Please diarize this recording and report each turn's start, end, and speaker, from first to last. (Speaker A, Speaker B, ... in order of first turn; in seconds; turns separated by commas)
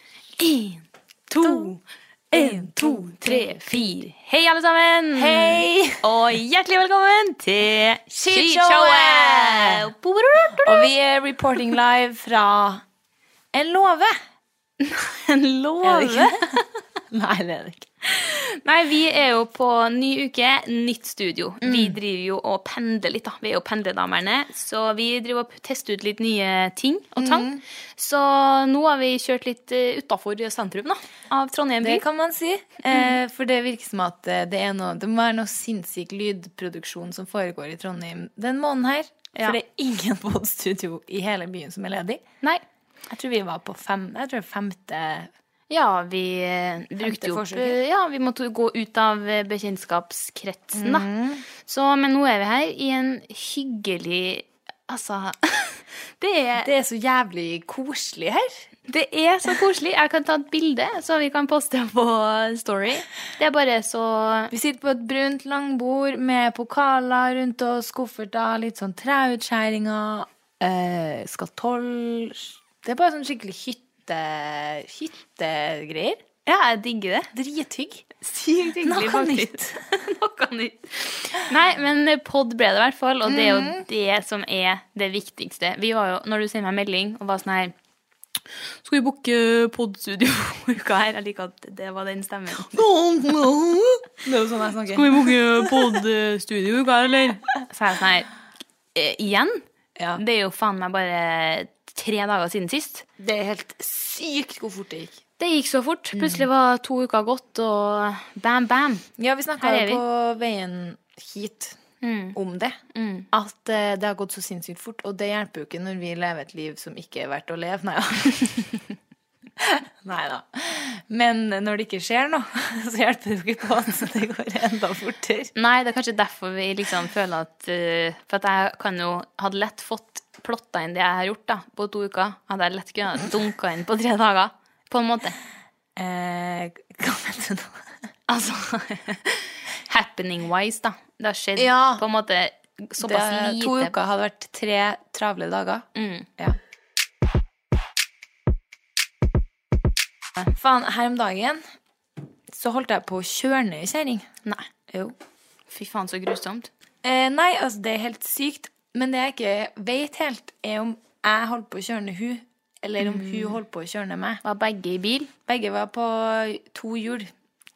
Speaker A: 0.4-1.8, Speaker B: 1.4-1.8, Speaker B: 2.3-3.9, Speaker A: 2.3-10.9, Speaker B: 5.2-6.0, Speaker B: 8.2-9.9, Speaker B: 10.5-12.8, Speaker B: 13.5-14.1, Speaker A: 14.8-16.6, Speaker B: 15.8-17.9, Speaker A: 18.1-32.0, Speaker B: 21.6-22.0, Speaker B: 27.2-27.6, Speaker B: 31.8-42.2, Speaker B: 43.1-45.3, Speaker A: 45.7-51.1, Speaker B: 47.0-47.8, Speaker B: 50.8-51.4, Speaker A: 51.6-56.7, Speaker B: 56.6-58.6, Speaker A: 58.9-64.5, Speaker B: 64.5-76.2, Speaker A: 76.5-77.3, Speaker B: 77.3-79.8, Speaker A: 78.3-87.7, Speaker B: 83.2-83.8, Speaker A: 88.8-92.8, Speaker B: 92.6-95.8, Speaker A: 94.9-98.3, Speaker A: 98.9-99.6, Speaker A: 100.2-103.1, Speaker B: 103.2-105.2, Speaker A: 105.4-109.1, Speaker B: 106.1-106.5, Speaker B: 109.2-111.8, Speaker A: 109.6-110.0, Speaker A: 112.0-112.4, Speaker B: 112.3-112.8, Speaker A: 112.9-113.3, Speaker B: 113.3-118.9, Speaker B: 119.6-125.5, Speaker A: 125.5-135.3, Speaker B: 135.9-137.8, Speaker A: 138.3-143.9, Speaker B: 141.6-142.0, Speaker B: 143.0-145.8, Speaker A: 145.9-146.3, Speaker B: 150.4-151.6, Speaker B: 152.5-154.3, Speaker B: 154.9-155.1, Speaker A: 155.7-156.7, Speaker B: 157.0-164.4, Speaker A: 163.0-163.6, Speaker A: 164.4-165.3, Speaker B: 165.4-167.3